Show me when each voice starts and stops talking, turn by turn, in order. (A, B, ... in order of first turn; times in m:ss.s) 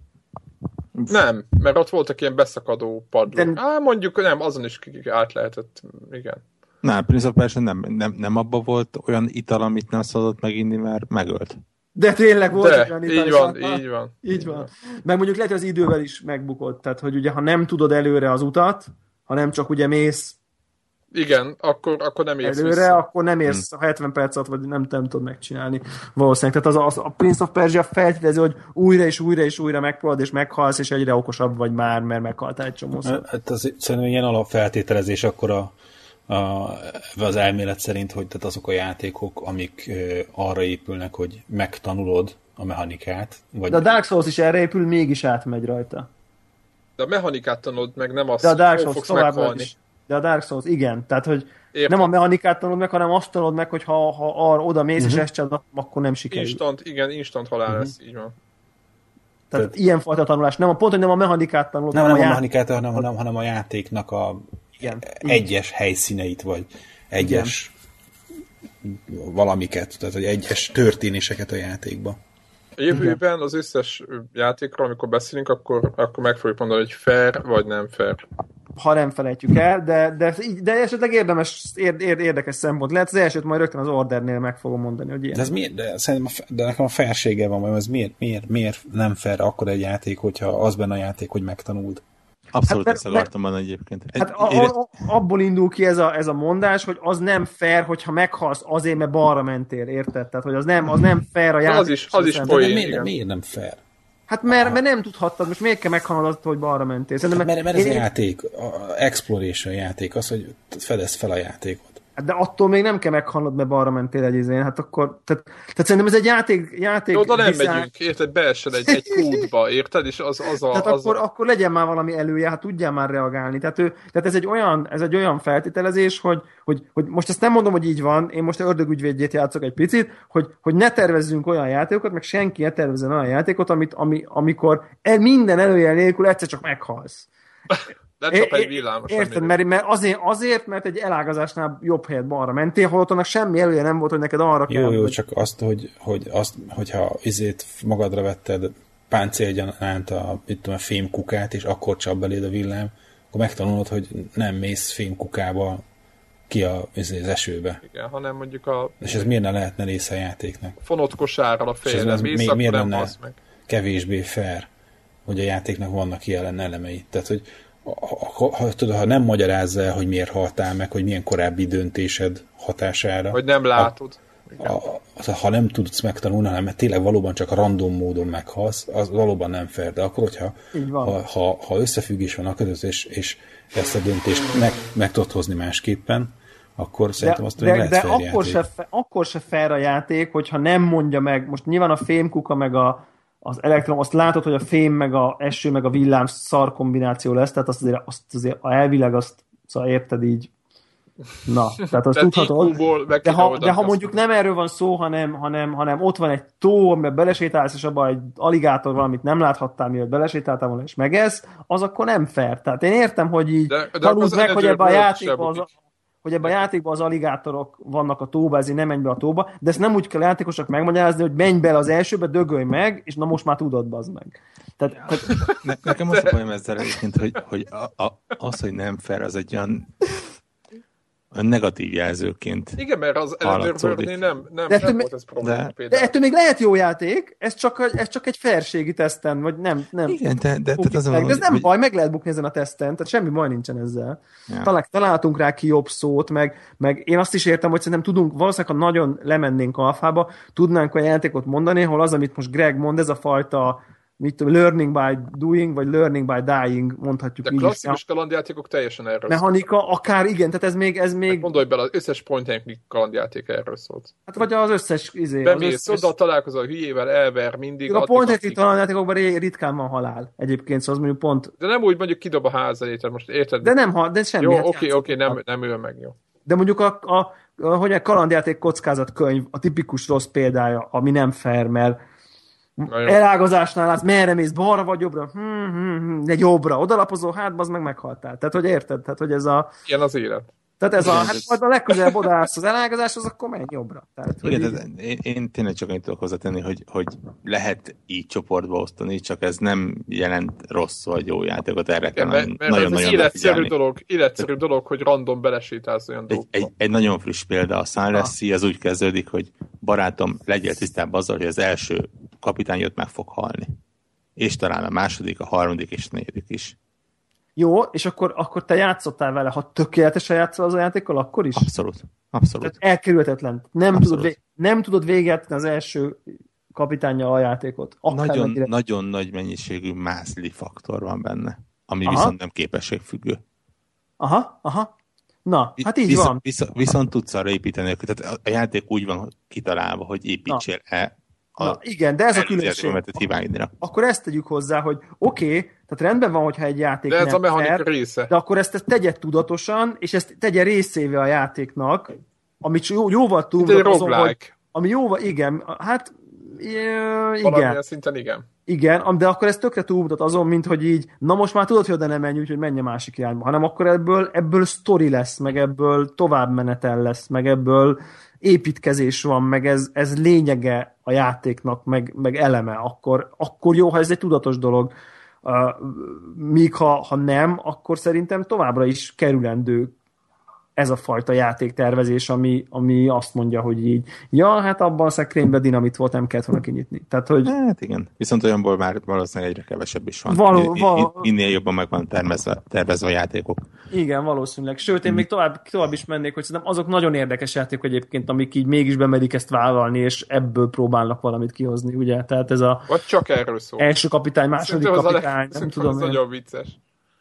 0:01.1-0:06.4 A
0:03.3-0:03.6 B
0:06.8-0:11.6 C
0:12.0-0:20.4 B
0:12.5-0:14.7 A
0:21.1-0:23.0 A
0:22.4-0:33.2 B
0:33.0-0:35.7 D
0:36.3-0:43.8 D
0:43.7-0:46.1 B
0:47.0-0:49.7 A
0:48.4-0:56.6 B
0:51.7-0:52.1 A
0:56.3-0:58.3 A
0:59.5-1:02.4 B
1:01.9-1:07.7 D
1:04.8-1:05.4 B
1:07.2-1:07.5 B
1:08.8-1:12.2 D
1:12.8-1:18.2 A
1:18.8-1:25.4 B
1:25.3-1:32.0 D
1:32.5-1:34.7 C
1:32.6-1:33.3 B
1:34.2-1:42.7 B
1:41.6-1:43.1 A
1:42.5-1:43.8 D
1:44.3-1:48.0 B
1:47.3-1:52.0 D
1:52.2-1:57.9 B
1:57.1-2:01.2 A
1:59.1-1:59.4 B
2:00.7-2:17.3 B
2:17.7-2:19.5 A
2:18.3-2:25.2 B
2:24.7-2:35.8 D
2:36.5-2:37.8 D
2:37.8-2:39.3 A
2:39.0-2:40.8 D
2:40.8-2:43.4 A
2:41.8-2:43.1 D
2:43.7-2:44.7 D
2:45.2-2:53.9 D
2:53.3-2:54.8 A
2:54.6-3:08.6 D
3:00.7-3:01.2 B
3:07.2-3:20.5 B
3:21.4-3:45.5 B
3:22.0-3:24.2 A
3:33.7-3:35.7 A
3:45.6-3:50.2 C
3:51.3-3:52.8 C
3:52.8-3:56.1 A
3:53.4-3:54.1 C
3:54.7-3:55.1 B
3:55.4-3:55.7 C
3:55.9-4:00.2 B
4:00.1-4:01.7 C
4:00.8-4:18.0 B
4:17.4-4:19.5 A
4:19.3-4:21.5 B
4:21.3-4:24.2 A
4:24.3-4:26.1 B
4:25.4-4:28.6 A
4:27.9-4:31.5 B
4:31.6-4:33.7 A
4:33.6-4:35.4 B
4:34.4-4:36.1 A
4:36.4-4:42.0 B
4:42.8-4:49.7 B
4:42.9-4:43.2 A
4:49.8-4:50.5 A
4:50.8-4:54.8 B
4:51.0-4:51.6 C
4:54.4-5:03.7 C
5:02.2-5:06.7 A
5:06.3-5:13.8 C
5:14.4-5:16.8 C
5:17.6-5:21.7 B
5:21.5-5:22.8 C
5:22.6-5:26.2 B
5:23.9-5:24.3 C
5:26.7-5:28.7 B
5:28.1-5:33.4 C
5:32.0-5:32.3 B
5:34.2-5:34.9 B
5:35.4-5:36.4 B
5:35.8-5:41.8 C
5:41.6-5:43.0 B
5:42.3-5:43.7 C
5:43.8-5:57.8 B
5:47.1-5:48.3 A
5:53.6-5:54.5 A
5:57.4-5:58.5 A
5:58.7-6:19.9 B
6:20.8-6:27.5 B
6:27.4-6:33.6 C
6:30.3-6:31.3 B
6:33.9-6:42.9 B
6:42.9-6:43.9 A
6:43.8-6:46.2 B
6:44.6-6:46.8 A